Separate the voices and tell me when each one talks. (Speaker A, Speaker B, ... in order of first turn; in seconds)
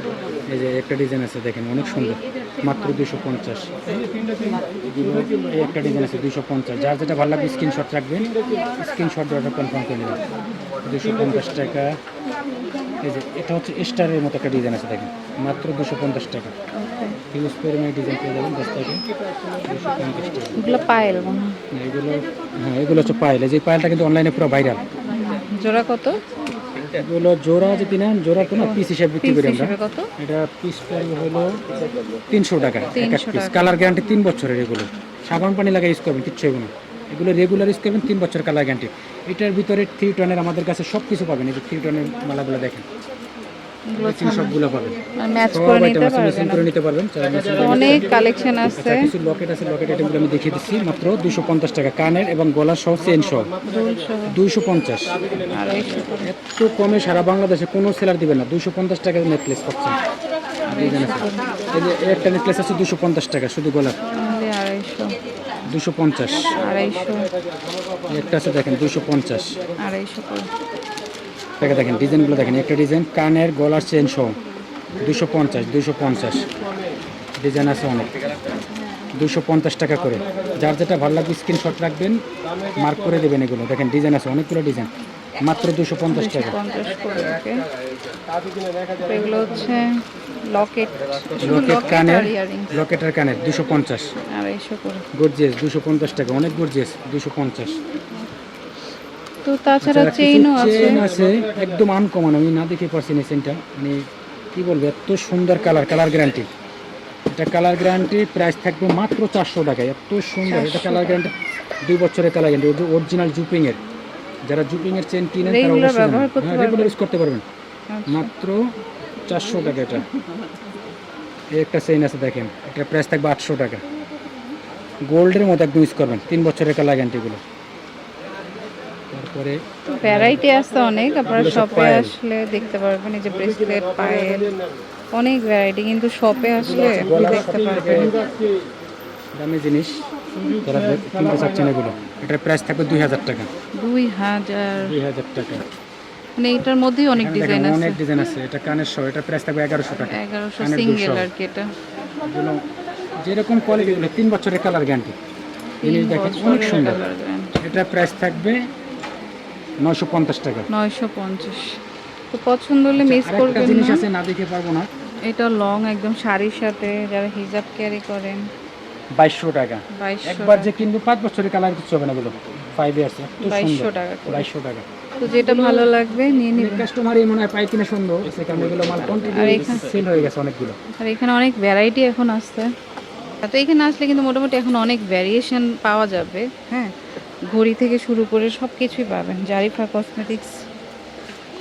Speaker A: 0.5-3.7, 4.9-10.2, 10.9-12.0, 13.0-16.5, 17.3-19.0, 19.6-20.6, 21.7-24.8, 26.9-31.6, 32.3-42.8, 44.0-45.0, 45.5-48.1, 48.7-53.5, 54.3-55.2, 56.1-60.0, 60.7-64.0, 65.7-66.6, 68.1-69.6, 71.6-74.4, 75.0-76.5, 77.4-78.1, 79.2-82.2, 82.8-84.9, 85.4-86.5, 91.4-94.1, 95.1-97.8, 99.8-104.0, 104.5-106.5, 107.3-111.3, 111.8-113.8, 114.5-117.4, 118.1-118.7, 119.2-120.0, 121.5-123.8, 125.1-127.4, 129.1-130.4, 131.3-132.1, 136.8-138.2, 139.3-140.0, 140.6-143.5, 144.8-145.6, 147.2-151.3, 152.2-152.6, 153.2-155.1, 155.8-157.1, 157.6-158.6, 159.8-160.7, 163.0-164.9, 169.2-174.8, 175.4-175.9, 176.5-180.8
Speaker B: 16.8-17.2, 20.6-21.6, 25.1-26.2, 27.6-27.9, 28.6-30.1, 32.9-33.8, 43.9-44.5, 45.2-46.7, 47.5-49.1, 53.6-54.4, 55.4-56.3, 60.7-61.5, 64.1-65.2, 66.5-67.3, 69.8-70.5, 86.1-87.6, 89.0-89.9, 90.5-92.7, 94.3-95.0, 99.4-101.0, 110.5-111.3, 115.4-117.0, 117.9-118.3, 130.0-134.6, 135.1-138.1, 143.8-145.0, 146.4-148.0, 150.0-151.7, 155.8-157.6, 160.7-161.7, 162.3-164.0, 165.3-168.4, 169.9-170.7, 173.4-174.5, 175.2-176.9, 179.3-179.8, 181.0-182.7, 183.4-186.9, 187.5-190.5